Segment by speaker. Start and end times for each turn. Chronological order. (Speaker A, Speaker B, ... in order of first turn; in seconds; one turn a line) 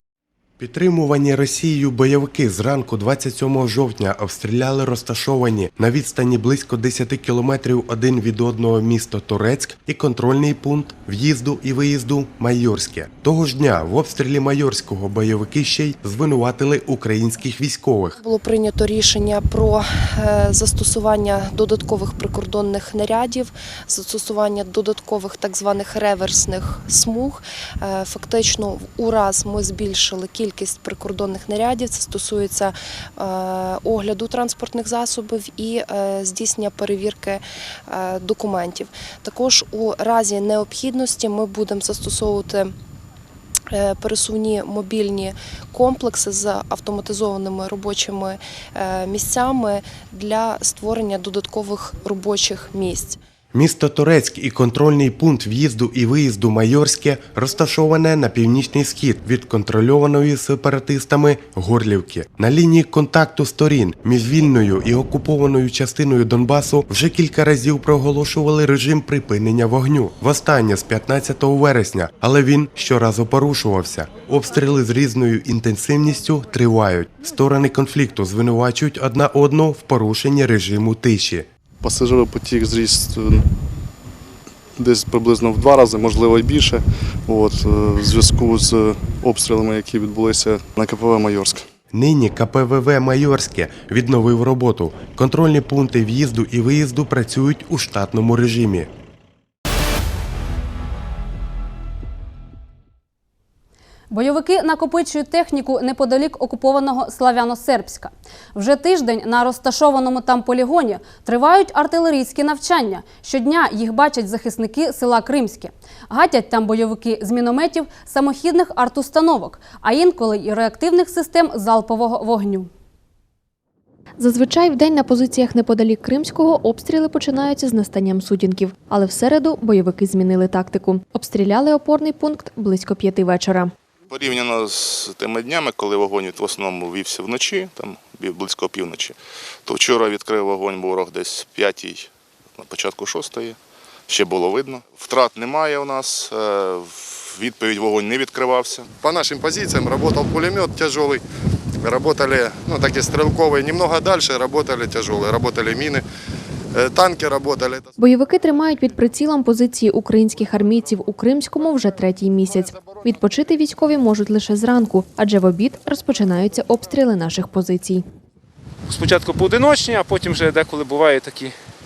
Speaker A: 0.6-18.2
Speaker B: 18.2-42.7
Speaker B: 43.7-53.2
Speaker A: 53.5-81.5
Speaker C: 81.8-83.4
Speaker C: 84.8-91.6
Speaker A: 91.9-98.9
Speaker D: 104.1-122.7
Speaker E: 124.2-133.7
Speaker F: 134.1-148.9
Speaker G: 149.0-151.2
Speaker G: 151.8-156.0
Speaker G: 156.8-157.9
Speaker E: 158.0-168.0
Speaker H: 168.9-171.6